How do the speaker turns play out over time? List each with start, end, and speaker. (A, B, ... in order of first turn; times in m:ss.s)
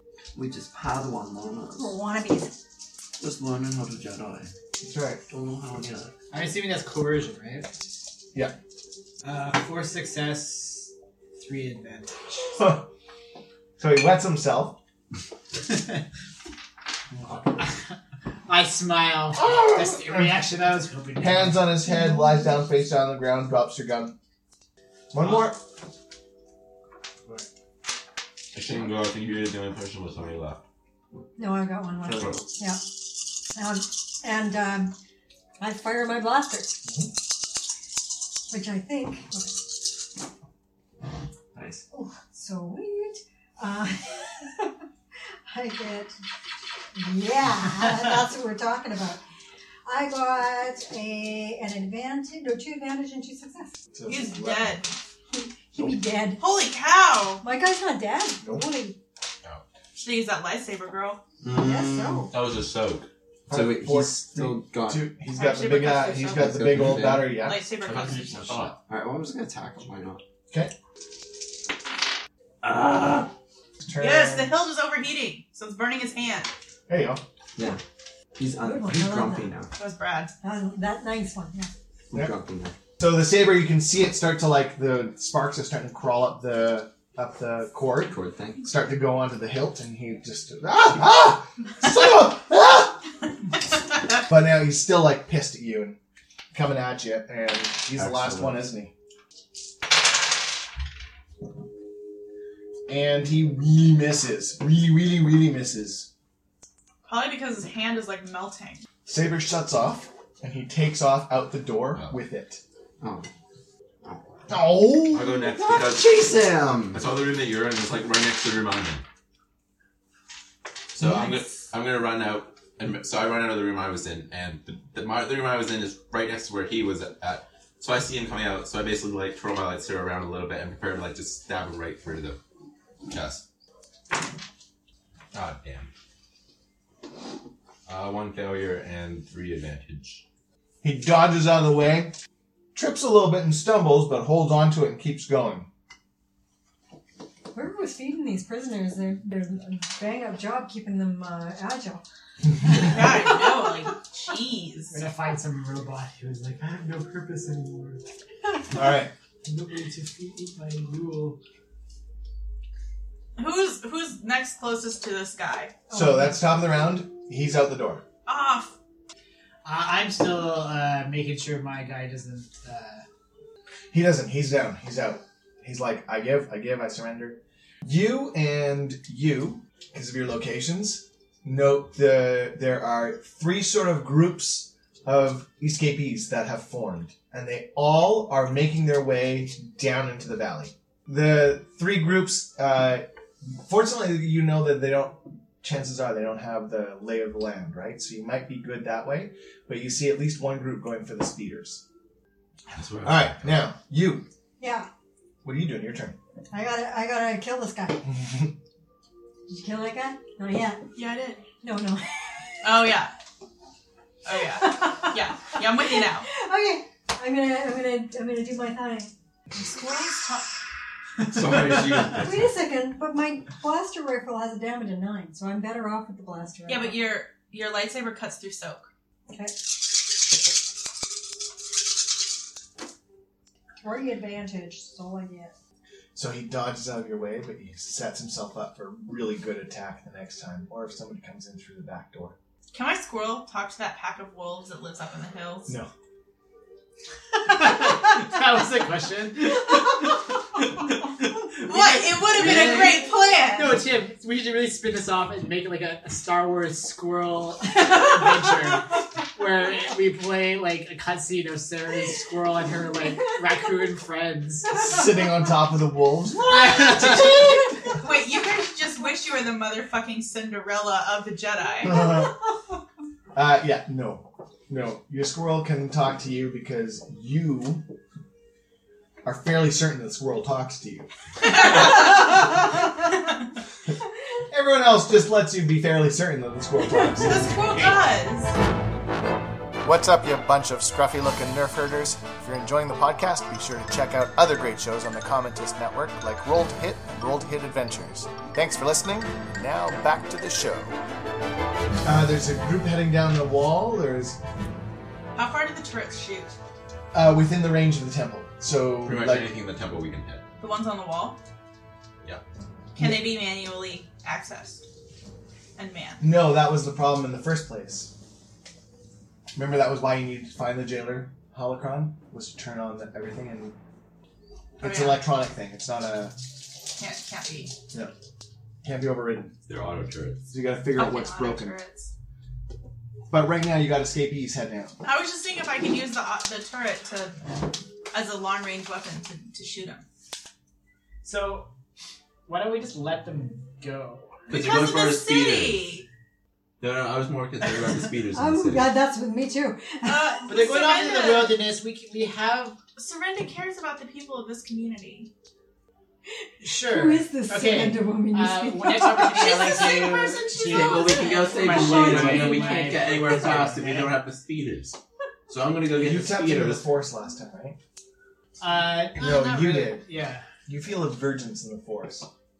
0:00.3-0:02.0 A
0:01.8-0:02.5 B
0:03.2-0:04.5 A
0:04.8-0:05.2 C
0:05.3-0:06.1 A
0:06.3-0:07.7 D
0:09.2-0:12.6 D
0:12.6-0:12.9 C
0:13.8-0:14.8 C
0:15.7-0:16.0 D
0:17.6-0:17.9 D
0:18.5-0:21.7 D
0:19.4-0:20.4 C
0:21.2-0:24.1 C
0:21.8-0:22.6 B
0:25.1-0:25.6 C
0:28.5-0:30.6 E
0:31.4-0:34.9 B
0:32.0-0:32.5 A
0:35.6-0:36.8 B
0:38.5-0:39.6 B
0:41.5-0:41.8 A
0:41.9-0:44.7 B
0:45.5-0:46.1 B
0:47.0-0:49.2 B
0:49.8-0:53.8 B
0:53.9-0:54.8 C
0:54.0-0:54.9 F
0:55.3-0:56.4 B
0:56.4-0:57.4 F
0:57.4-0:59.0 B
0:58.4-0:58.7 C
1:00.0-1:01.2 F
1:01.4-1:02.3 A
1:01.5-1:02.3 B
1:02.3-1:03.1 E
1:03.5-1:07.6 C
1:03.5-1:05.1 A
1:05.3-1:06.6 F
1:06.3-1:07.4 A
1:07.2-1:08.6 F
1:07.8-1:08.8 E
1:08.5-1:10.2 A
1:12.6-1:13.3 A
1:13.8-1:14.5 C
1:14.0-1:16.5 F
1:16.9-1:17.2 C
1:18.4-1:19.7 A
1:18.6-1:19.5 B
1:19.8-1:20.3 F
1:20.4-1:21.7 B
1:22.1-1:22.7 A
1:23.0-1:33.0 C
1:28.0-1:28.6 A
1:34.2-1:36.0 C
1:36.5-1:38.9 C
1:37.9-1:38.7 A
1:42.9-1:46.1 C
1:47.0-1:48.8 F
1:49.0-1:52.6 C
1:53.0-1:53.3 A
1:54.0-1:54.7 A
1:54.5-1:55.4 C
1:55.1-1:56.3 E
1:55.3-1:57.1 A
1:56.9-1:59.0 E
2:00.9-2:12.4 E
2:13.0-2:13.4 E
2:15.3-2:15.9 E
2:17.9-2:20.2 E
2:20.8-2:22.1 C
2:22.7-2:25.7 C
2:27.5-2:32.0 B
2:32.6-2:33.4 B
2:32.7-2:35.0 F
2:34.9-2:38.0 D
2:38.7-2:39.1 C
2:39.4-2:41.4 D
2:43.4-2:45.7 F
2:45.9-2:46.4 B
2:45.9-2:48.0 C
2:48.2-2:48.7 F
2:49.6-2:53.0 D
2:53.9-3:21.8 C
3:22.7-3:23.5 E
3:23.0-3:24.2 C
3:24.6-3:24.9 B
3:25.4-3:26.2 C
3:26.5-3:28.1 B
3:28.0-3:28.5 C
3:29.5-3:30.8 B
3:31.0-3:31.4 F
3:31.6-3:32.8 B
3:32.6-3:33.1 F
3:34.2-3:36.3 F
3:34.3-3:40.3 B
3:41.2-3:42.0 D
3:41.4-3:42.2 E
3:41.4-3:42.4 A
3:42.2-3:47.0 B
3:46.7-3:48.9 F
3:49.3-3:49.5 B
3:53.8-3:55.5 B
3:56.1-4:02.4 C
4:02.7-4:05.7 F
4:07.4-4:10.2 D
4:11.2-4:24.9 D
4:11.6-4:13.8 F
4:24.7-4:27.7 C
4:26.5-4:27.6 D
4:28.0-4:32.1 F
4:31.8-4:32.3 C
4:33.3-4:37.8 C
4:39.2-4:41.8 C
4:41.5-4:42.1 F
4:44.5-4:47.6 C
4:47.2-4:48.6 F
4:49.8-5:00.9 C
5:02.0-5:04.4 C
5:05.3-5:06.5 F
5:07.1-5:09.5 C
5:09.0-5:10.4 E
5:10.6-5:11.4 F
5:13.0-5:14.8 F
5:15.8-5:16.2 F
5:16.2-5:18.1 C
5:19.5-5:23.7 C
5:24.8-5:26.3 C
5:24.8-5:25.2 F
5:27.0-5:27.7 F
5:28.8-5:29.5 C
5:29.7-5:30.5 E
5:30.5-5:31.7 C
5:30.9-5:32.1 F
5:33.3-5:35.0 C
5:35.0-5:37.3 F
5:38.1-5:40.0 F
5:41.2-5:41.7 D
5:42.5-5:44.4 D
5:44.5-5:45.8 E
5:44.5-5:46.0 F
5:46.8-5:48.9 E
5:48.3-5:50.5 B
5:50.0-5:51.6 F
5:50.5-5:52.8 D
5:53.0-5:55.3 F
5:56.6-6:04.2 D
5:56.7-5:59.7 B
5:59.2-6:02.5 F
6:00.6-6:05.0 E
6:01.2-6:03.0 B
6:05.5-6:06.8 E
6:05.9-6:07.8 C
6:08.6-6:10.4 D
6:09.2-6:10.0 C
6:10.7-6:12.3 C